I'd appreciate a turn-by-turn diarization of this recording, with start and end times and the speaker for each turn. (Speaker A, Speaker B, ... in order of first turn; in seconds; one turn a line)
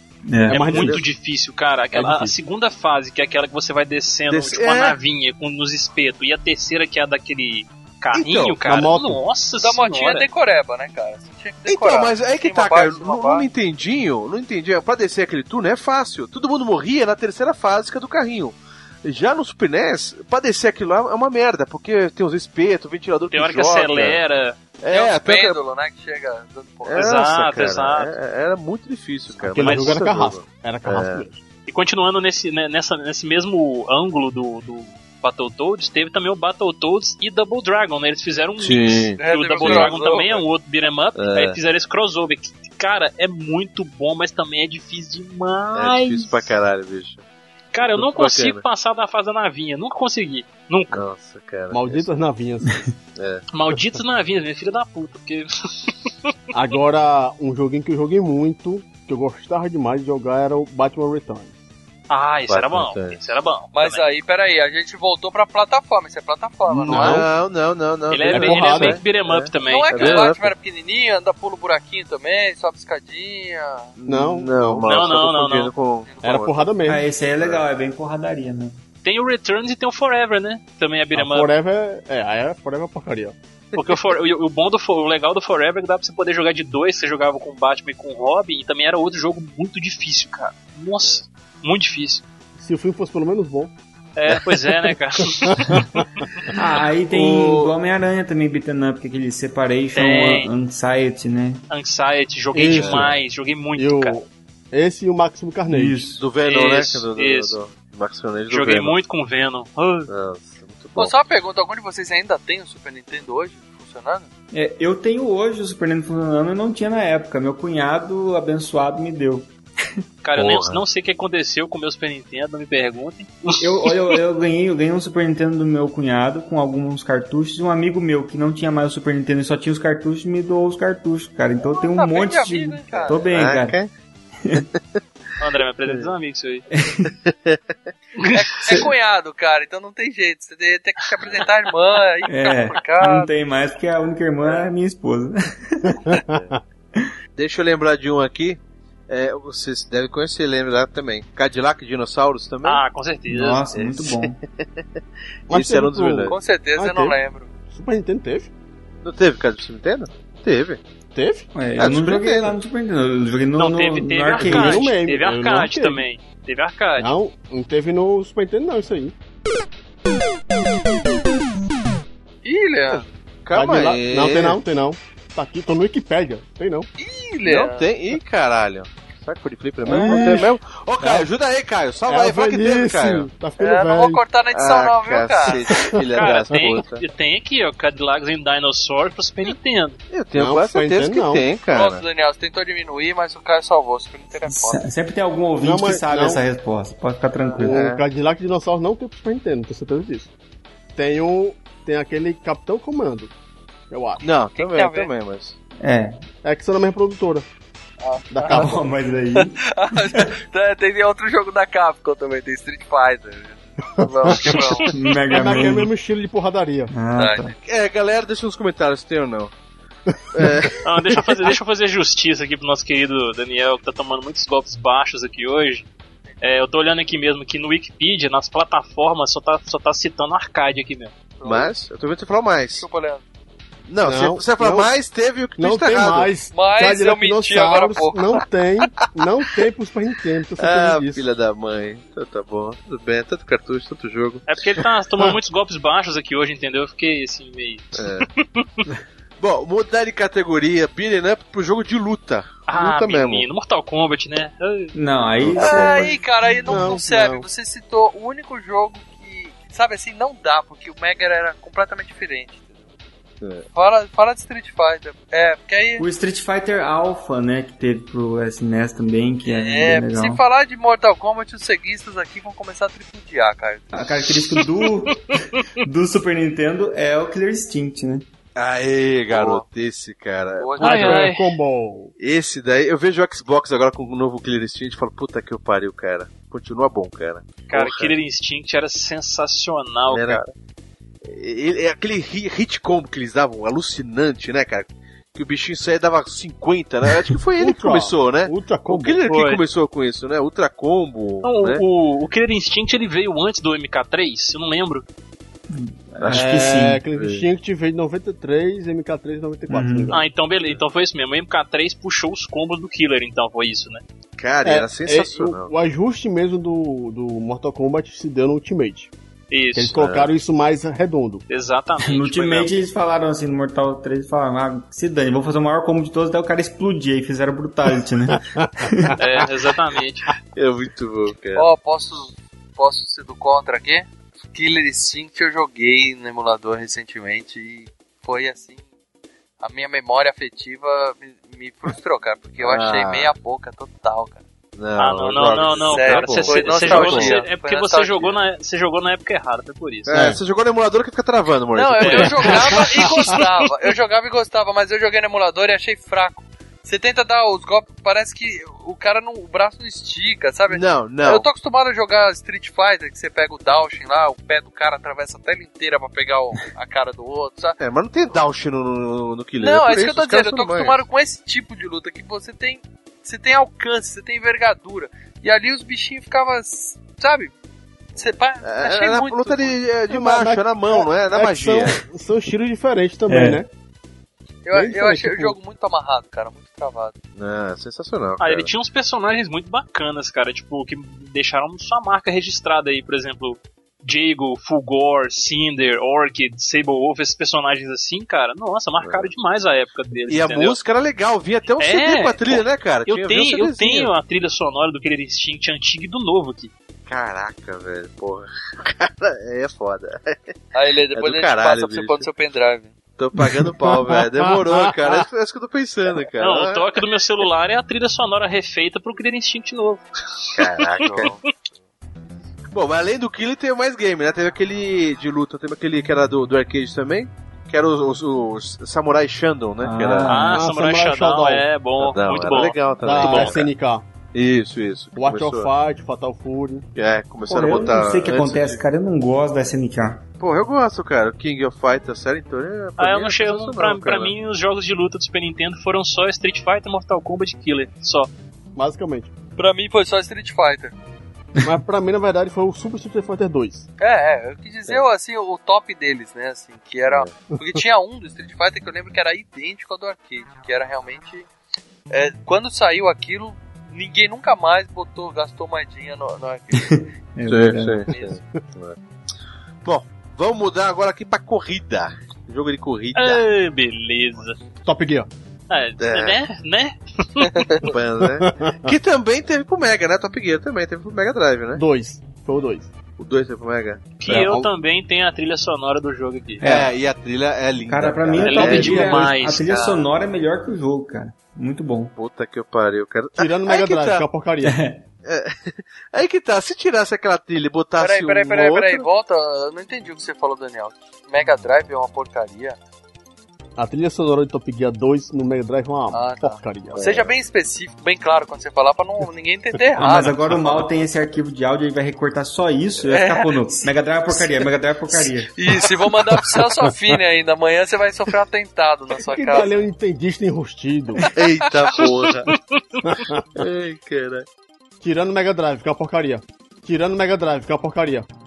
Speaker A: 0.3-0.7
Speaker B: 0.5-1.0
Speaker C: 0.5-10.3
Speaker D: 0.7-1.0
Speaker B: 1.9-2.3
Speaker D: 4.3-5.0
Speaker D: 8.1-8.6
Speaker B: 8.6-9.2
Speaker E: 9.6-13.5
Speaker D: 11.7-24.2
Speaker C: 23.3-24.6
Speaker D: 24.8-25.6
Speaker E: 24.9-27.1
Speaker D: 26.9-31.2
Speaker C: 26.9-28.1
Speaker B: 29.3-31.4
Speaker C: 29.6-30.1
Speaker C: 31.7-46.5
Speaker D: 38.6-40.0
Speaker E: 39.2-40.4
Speaker D: 41.1-41.6
Speaker D: 45.7-47.2
Speaker C: 47.7-51.0
Speaker D: 47.8-48.6
Speaker D: 50.9-52.1
Speaker B: 51.7-52.8
Speaker D: 53.1-53.4
Speaker C: 53.5-56.3
Speaker B: 56.5-61.6
Speaker C: 62.1-64.1
Speaker D: 62.5-63.3
Speaker E: 63.7-67.2
Speaker B: 66.7-67.3
Speaker D: 66.8-70.5
Speaker C: 68.1-70.3
Speaker B: 68.3-69.0
Speaker E: 69.6-73.9
Speaker D: 74.0-76.8
Speaker B: 74.0-74.8
Speaker C: 74.8-75.7
Speaker E: 76.1-76.4
Speaker B: 76.2-77.0
Speaker A: 76.8-78.8
Speaker C: 79.0-81.5
Speaker B: 81.1-83.3
Speaker C: 83.7-92.2
Speaker B: 92.6-93.7
Speaker C: 94.2-96.5
Speaker B: 95.3-96.0
Speaker A: 96.5-101.6
Speaker D: 97.1-97.7
Speaker C: 99.9-100.5
Speaker C: 101.7-104.2
Speaker B: 102.5-103.2
Speaker D: 102.7-103.2
Speaker B: 103.8-106.0
Speaker A: 105.7-106.2
Speaker D: 106.2-109.0
Speaker C: 106.3-107.6
Speaker C: 108.5-110.1
Speaker D: 110.1-111.1
Speaker E: 111.0-114.3
Speaker A: 114.5-119.5
Speaker C: 120.2-123.9
Speaker D: 120.3-120.8
Speaker A: 123.6-133.8
Speaker E: 131.6-133.2
Speaker D: 132.9-133.9
Speaker C: 135.4-136.7
Speaker D: 135.8-136.1
Speaker A: 136.7-137.1
Speaker D: 137.2-137.6
Speaker C: 138.2-138.4
Speaker E: 138.3-143.3
Speaker A: 142.3-146.2
Speaker B: 146.1-146.6
Speaker D: 146.3-146.6
Speaker D: 147.3-152.8
Speaker C: 152.6-153.6
Speaker A: 153.3-154.4
Speaker D: 153.7-154.8
Speaker D: 155.5-156.4
Speaker B: 155.5-157.2
Speaker E: 156.3-157.5
Speaker B: 157.7-158.5
Speaker D: 159.0-160.8
Speaker B: 161.1-161.5
Speaker A: 161.5-164.9
Speaker D: 161.8-162.6
Speaker C: 163.6-167.1
Speaker B: 164.4-166.0
Speaker B: 167.0-169.1
Speaker E: 172.4-173.1
Speaker D: 172.9-174.6
Speaker B: 173.5-176.9
Speaker E: 177.0-177.8
Speaker D: 177.4-183.3
Speaker B: 179.8-181.3
Speaker E: 180.0-180.3
Speaker B: 182.1-184.2
Speaker E: 183.6-185.8
Speaker D: 184.5-187.0
Speaker B: 185.7-185.9
Speaker C: 186.1-190.0
Speaker D: 190.1-192.0
Speaker B: 190.3-191.4
Speaker E: 191.7-194.8
Speaker A: 194.5-197.8
Speaker B: 195.6-196.4
Speaker B: 197.6-200.3
Speaker D: 197.6-198.0
Speaker B: 200.9-203.3
Speaker B: 203.9-204.2
Speaker D: 204.2-205.6
Speaker E: 204.5-205.1
Speaker A: 205.8-206.2
Speaker B: 206.4-207.5
Speaker E: 208.0-208.7
Speaker B: 208.3-208.8
Speaker A: 208.5-209.6
Speaker E: 209.3-214.9
Speaker B: 214.0-214.6
Speaker C: 214.5-215.0
Speaker A: 214.9-215.9
Speaker B: 215.3-216.9
Speaker A: 216.9-217.5
Speaker E: 217.2-217.5
Speaker D: 217.6-219.5
Speaker B: 220.1-220.7
Speaker D: 220.3-221.2
Speaker C: 220.8-225.9
Speaker C: 226.4-231.1
Speaker E: 231.4-231.8
Speaker D: 231.4-232.8
Speaker E: 232.8-233.2
Speaker D: 233.9-236.3
Speaker B: 234.0-234.9
Speaker B: 235.6-241.2
Speaker E: 236.5-238.4
Speaker D: 240.6-244.4
Speaker C: 244.4-248.8
Speaker D: 248.0-248.3
Speaker D: 249.4-253.5
Speaker C: 252.7-254.9
Speaker A: 254.9-256.2
Speaker D: 255.4-256.1
Speaker E: 255.6-262.8
Speaker B: 256.6-257.4
Speaker D: 263.4-263.6
Speaker E: 263.7-266.0
Speaker A: 266.0-270.4
Speaker E: 269.4-274.0
Speaker A: 273.9-275.2
Speaker C: 274.5-275.1
Speaker A: 275.8-278.2
Speaker D: 278.6-281.2
Speaker E: 279.3-279.6
Speaker E: 280.6-281.2
Speaker C: 280.8-281.5
Speaker B: 280.8-282.1
Speaker D: 282.2-288.2
Speaker C: 287.7-290.4
Speaker D: 290.1-290.5
Speaker D: 291.2-301.8
Speaker B: 297.6-299.2
Speaker C: 299.2-299.6
Speaker C: 301.4-305.0
Speaker A: 305.7-307.0
Speaker D: 306.2-307.5
Speaker B: 306.3-310.2
Speaker A: 309.7-310.2
Speaker C: 310.1-314.0
Speaker D: 314.4-315.7
Speaker B: 314.6-319.1
Speaker C: 319.5-319.9
Speaker B: 319.7-321.4
Speaker D: 319.9-320.3
Speaker C: 321.5-322.8
Speaker A: 322.0-329.1
Speaker B: 328.4-328.9
Speaker C: 329.2-330.3
Speaker D: 330.5-331.7
Speaker E: 331.5-338.8
Speaker E: 339.6-344.4
Speaker D: 342.6-343.3
Speaker D: 344.8-347.4
Speaker C: 345.0-350.1
Speaker E: 345.5-348.4
Speaker D: 350.1-353.4
Speaker B: 350.1-350.4
Speaker E: 351.7-367.8
Speaker C: 352.0-352.5
Speaker D: 360.7-361.5
Speaker D: 367.8-371.0
Speaker E: 369.6-377.5
Speaker E: 378.2-379.8
Speaker D: 378.2-382.0
Speaker B: 380.1-383.7
Speaker A: 383.3-383.6
Speaker E: 384.6-387.1
Speaker B: 384.7-385.6
Speaker D: 387.4-388.7
Speaker C: 388.4-400.8
Speaker D: 399.0-399.3
Speaker D: 400.3-404.1
Speaker C: 401.8-406.7
Speaker D: 407.1-410.6
Speaker E: 410.7-412.9
Speaker D: 411.1-412.3
Speaker D: 413.2-417.0
Speaker B: 413.4-415.2
Speaker C: 416.4-421.3
Speaker D: 420.5-421.4
Speaker D: 422.7-430.5
Speaker A: 429.8-430.6
Speaker C: 430.3-433.6
Speaker B: 430.5-431.7
Speaker D: 432.0-433.6
Speaker B: 433.0-434.0
Speaker D: 434.3-435.7
Speaker B: 435.1-436.9
Speaker D: 436.9-438.8
Speaker A: 437.5-440.2
Speaker D: 440.4-444.3
Speaker C: 443.0-448.3
Speaker B: 448.7-449.3
Speaker E: 449.6-450.9
Speaker B: 451.6-453.9
Speaker E: 454.0-461.5
Speaker E: 462.1-466.9
Speaker A: 466.7-468.1
Speaker D: 467.5-469.0
Speaker D: 469.8-473.4
Speaker C: 473.1-474.6
Speaker B: 474.8-475.3
Speaker C: 475.7-477.9
Speaker D: 476.0-476.4
Speaker D: 477.8-481.8
Speaker B: 478.3-478.9
Speaker B: 481.7-482.9
Speaker D: 483.2-484.5
Speaker C: 484.2-486.6
Speaker B: 484.3-484.7
Speaker A: 486.6-486.9
Speaker D: 486.6-489.2
Speaker A: 487.9-492.1
Speaker C: 488.4-490.0
Speaker B: 488.6-489.3
Speaker D: 492.1-494.2
Speaker B: 493.4-494.8
Speaker A: 494.6-495.0
Speaker D: 495.2-499.1
Speaker E: 498.0-502.8
Speaker B: 503.8-507.1
Speaker E: 506.1-510.8
Speaker D: 506.9-507.3
Speaker A: 509.9-515.5
Speaker E: 513.1-514.5
Speaker E: 515.1-519.8
Speaker B: 519.2-521.2
Speaker D: 521.3-522.5
Speaker C: 522.5-523.1
Speaker B: 523.1-523.4
Speaker D: 523.5-524.5
Speaker B: 525.0-528.3